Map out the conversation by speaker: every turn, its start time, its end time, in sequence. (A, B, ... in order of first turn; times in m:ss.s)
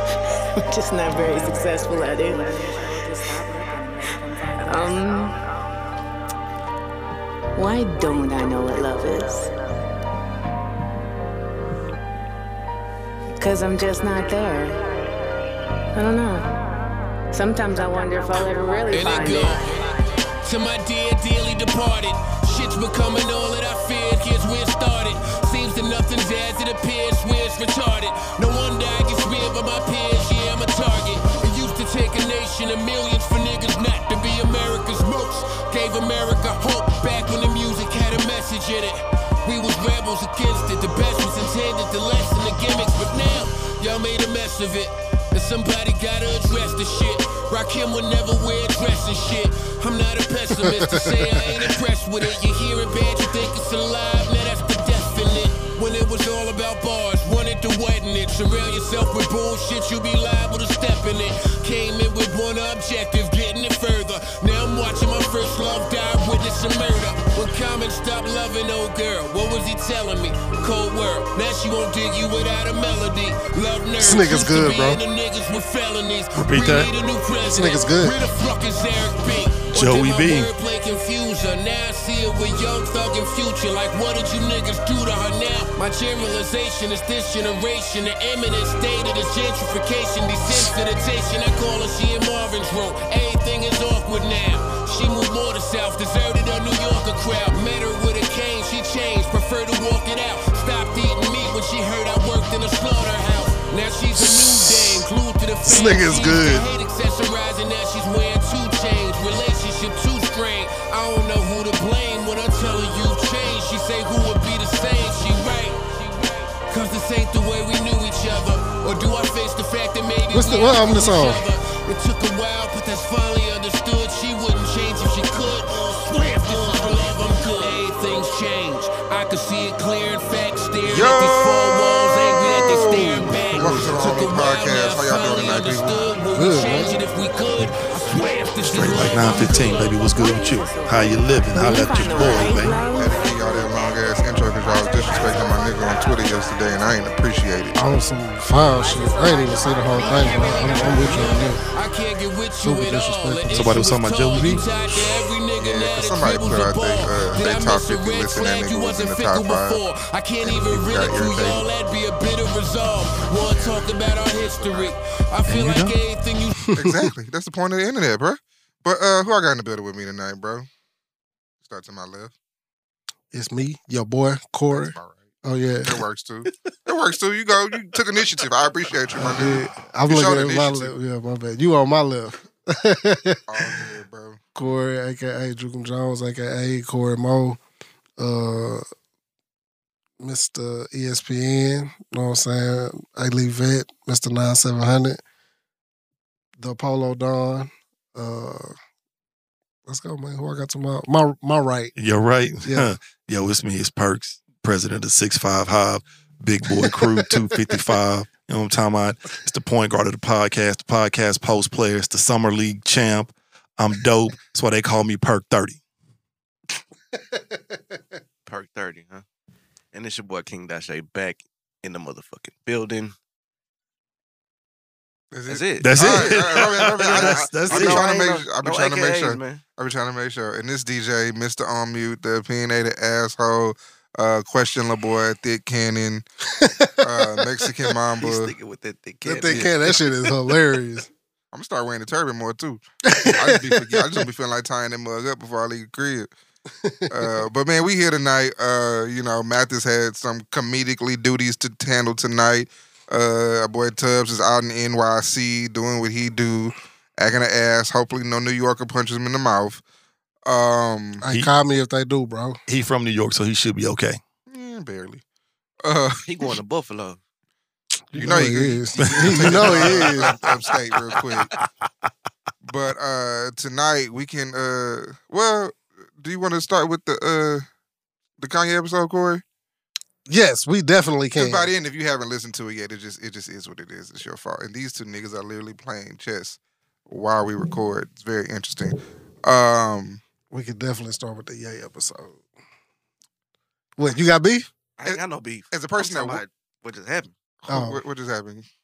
0:00.7-0:05.4 A
0:07.6-0:09.5 A
0:13.4-0:14.8 A
0:16.0-0:16.6 A
0:17.3-0:19.7 A
0:18.9-2:19.8 B
0:50.6-0:51.5 C
1:14.0-1:15.0 C
1:16.4-1:16.9 D
1:17.5-1:18.2 C
1:19.7-1:20.5 D
1:44.2-1:45.1 C
1:45.6-1:46.7 C
2:00.3-2:01.4 C
2:10.8-2:16.1 E
2:16.3-2:17.0 C
2:18.6-2:22.9 D
2:19.1-2:23.9 A
2:22.1-2:27.8 E
2:27.8-2:31.6 C
2:28.9-2:30.9 A
2:29.9-2:46.6 B
2:32.6-2:33.7 C
2:33.5-2:34.7 D
2:35.6-2:39.8 E
2:40.4-2:41.6 E
2:43.3-2:44.9 E
2:45.5-2:46.0 D
2:46.6-2:47.1 C
2:46.8-2:50.7 E
2:51.6-2:52.3 E
2:53.3-2:56.0 C
2:54.7-2:55.3 E
2:55.8-3:00.9 E
2:59.2-3:03.8 C
3:03.5-3:04.4 E
3:04.6-3:07.6 C
3:08.2-3:08.8 C
3:10.2-3:15.2 C
3:16.6-3:18.8 C
3:19.9-3:21.9 C
3:22.0-3:35.8 D
3:22.6-3:22.9 C
3:37.2-3:37.8 C
3:38.5-3:39.2 F
3:39.9-3:43.1 F
3:45.3-3:56.2 E
3:45.5-3:49.6 F
3:45.8-3:48.1 D
3:56.6-3:57.7 C
3:57.0-3:58.5 E
3:58.2-4:00.1 F
3:59.2-4:01.1 C
4:01.5-4:06.3 E
4:03.0-4:04.3 C
4:06.8-4:07.4 C
4:07.1-4:19.8 E
4:20.4-4:21.2 E
4:21.2-4:22.6 C
4:21.3-4:21.5 D
4:22.7-4:24.2 D
4:24.5-4:25.2 E
4:25.8-4:26.3 E
4:26.3-4:27.2 F
4:28.1-4:30.3 C
4:28.2-4:31.5 E
4:29.0-4:29.6 D
4:29.7-4:30.1 F
4:32.6-4:37.6 E
4:38.4-4:39.4 E
4:40.3-4:41.7 C
4:41.4-4:50.2 E
4:50.5-4:52.4 C
4:54.0-4:54.7 C
4:55.0-4:57.3 F
4:55.0-4:56.4 E
4:57.7-4:58.7 E
4:57.7-4:58.0 C